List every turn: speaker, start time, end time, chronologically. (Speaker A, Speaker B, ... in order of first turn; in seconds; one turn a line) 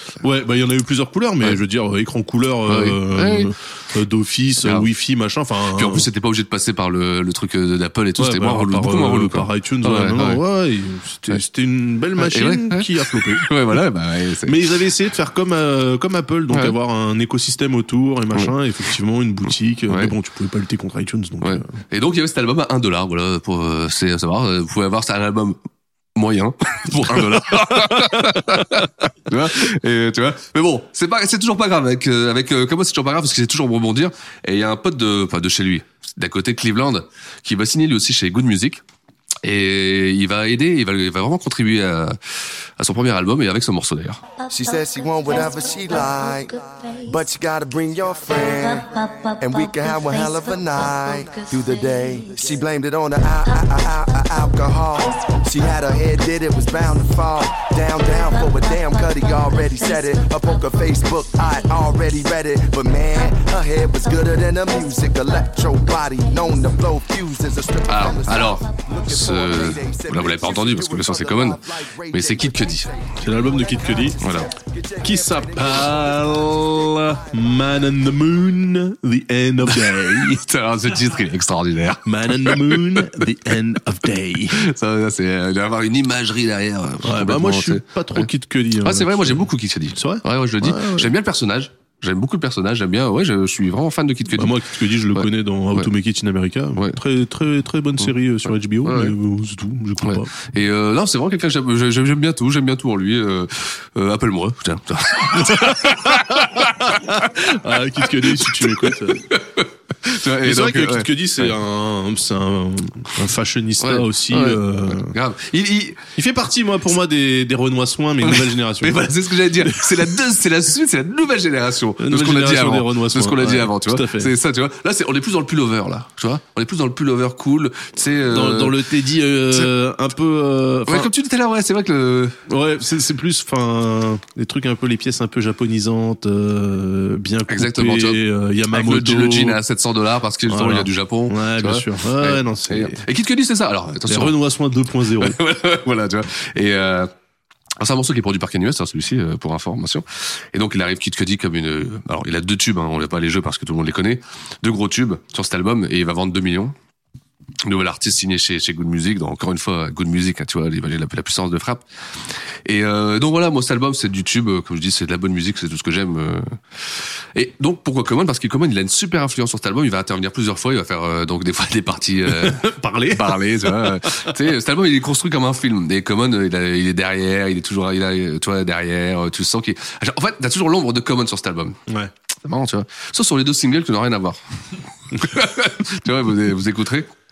Speaker A: 0.2-6.1
Speaker B: 2.7-3.5
Speaker B: 4.6-4.9
Speaker B: 5.7-10.4
Speaker A: 8.2-13.8
Speaker B: 12.2-14.6
Speaker A: 14.4-21.7
Speaker B: 19.9-20.1
Speaker B: 21.4-25.6
Speaker B: 26.1-38.8
Speaker A: 27.7-28.4
Speaker B: 39.4-42.1
Speaker B: 42.8-44.2
Speaker C: 44.5-77.6
Speaker B: 67.9-72.9
Speaker A: 73.2-74.2
Speaker B: 74.2-74.5
Speaker A: 75.0-80.4
Speaker B: 79.7-83.2
Speaker A: 82.0-84.6
Speaker B: 84.5-88.3
Speaker A: 87.0-91.1
Speaker B: 88.8-94.5
Speaker A: 94.3-100.3
Speaker B: 95.1-95.9
Speaker B: 98.8-99.1
Speaker B: 100.0-107.3
Speaker A: 105.3-109.2
Speaker B: 108.3-111.5
Speaker A: 110.4-115.1
Speaker B: 113.8-116.0
Speaker A: 116.2-119.0
Speaker B: 118.2-128.8
Speaker A: 119.6-120.1
Speaker A: 122.0-124.3
Speaker A: 128.3-131.1
Speaker B: 130.9-132.4
Speaker A: 132.5-139.6
Speaker B: 137.5-144.3
Speaker A: 140.5-143.0
Speaker A: 144.1-145.4
Speaker B: 145.2-147.1
Speaker B: 147.8-156.7
Speaker B: 157.6-161.8
Speaker B: 162.7-166.6
Speaker B: 167.3-181.8
Speaker A: 172.3-174.3
Speaker A: 181.9-182.1
Speaker B: 182.4-184.4
Speaker B: 185.1-187.1